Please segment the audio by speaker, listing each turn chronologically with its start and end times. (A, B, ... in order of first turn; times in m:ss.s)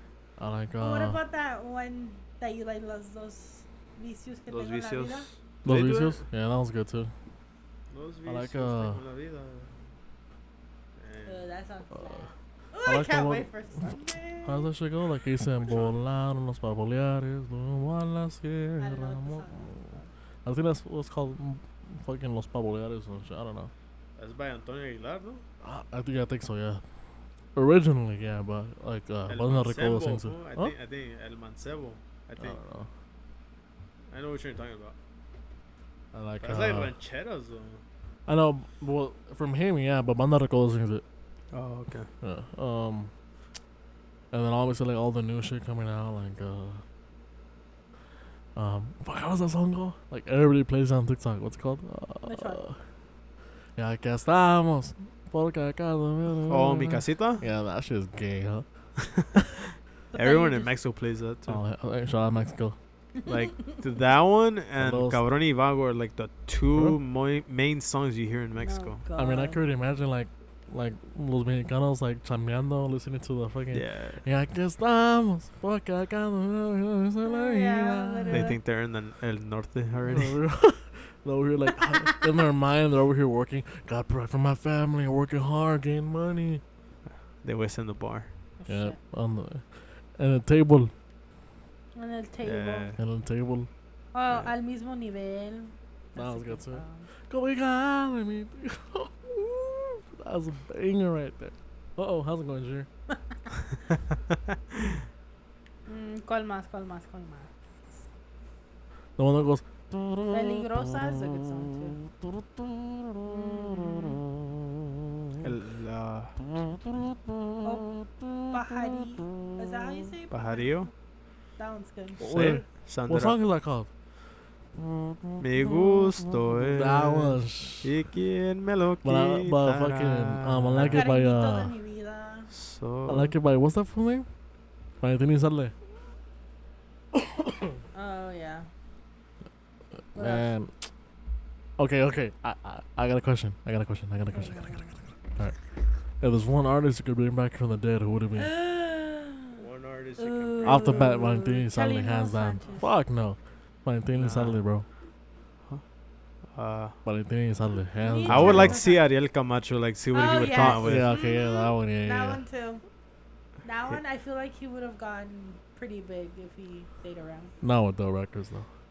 0:00.4-0:01.2 A
0:00.8-0:05.3 B
0:04.5-0:06.2 C
0:05.6-0:07.1 A
0:07.9-0:09.7 C
0:08.2-0:09.0 A
0:11.0-0:11.4 C
0:11.2-0:14.7 B
0:12.8-0:23.7 A
0:15.6-0:16.0 C
0:18.8-0:20.1 B
0:24.2-0:25.4 C
0:25.6-0:26.8 A
0:27.5-0:30.7 A
0:29.3-0:32.6 C
0:32.4-0:32.9 A
0:34.1-0:35.0 C
0:36.1-0:36.9 A
0:36.4-0:37.8 C
0:38.2-0:41.0 A
0:41.5-0:42.1 C
0:42.2-0:43.1 A
0:44.3-0:46.8 A
0:48.5-0:52.8 A
0:52.2-0:52.6 B
0:53.8-0:58.6 A
0:56.5-0:57.4 C
0:59.0-0:59.3 C
1:00.1-1:00.7 B
1:00.1-1:01.6 C
1:01.5-1:02.8 A
1:03.2-1:03.8 B
1:03.2-1:09.0 C
1:04.8-1:05.2 A
1:06.7-1:07.0 A
1:08.6-1:09.6 B
1:09.2-1:18.5 A
1:13.7-1:14.2 C
1:17.2-1:18.6 B
1:18.3-1:20.4 C
1:20.1-1:26.6 A
1:21.8-1:22.2 B
1:27.4-1:28.3 C
1:28.6-1:29.0 B
1:28.7-1:30.9 A
1:31.9-1:32.9 B
1:32.4-1:33.0 C
1:33.0-1:33.7 A
1:34.1-1:37.1 B
1:36.1-1:42.9 A
1:45.9-1:48.0 B
1:49.2-1:54.6 A
1:50.3-1:52.0 B
1:53.2-1:54.2 B
1:55.4-1:56.4 C
1:56.5-1:59.5 A
1:57.6-1:57.9 B
1:58.5-2:00.9 B
2:00.3-2:00.9 C
2:01.6-2:02.3 B
2:02.2-2:03.9 A
2:02.3-2:03.4 C
2:04.8-2:07.9 A
2:05.4-2:11.0 C
2:09.0-2:11.7 A
2:10.9-2:12.5 B
2:12.5-2:13.3 C
2:13.1-2:14.3 A
2:15.0-2:15.7 A
2:17.1-2:17.8 A
2:17.9-2:18.7 B
2:20.1-2:20.9 A
2:20.1-2:20.5 B
2:21.8-2:24.7 A
2:24.3-2:25.0 B
2:26.2-2:28.5 A
2:28.4-2:29.6 B
2:29.6-2:31.1 C
2:30.2-2:32.9 B
2:30.6-2:34.8 A
2:34.1-2:34.6 C
2:36.5-2:37.0 C
2:37.0-2:38.8 A
2:38.0-2:39.0 B
2:38.2-2:41.1 C
2:40.1-2:42.8 B
2:40.5-2:42.4 A
2:43.6-2:47.5 B
2:47.6-2:48.7 A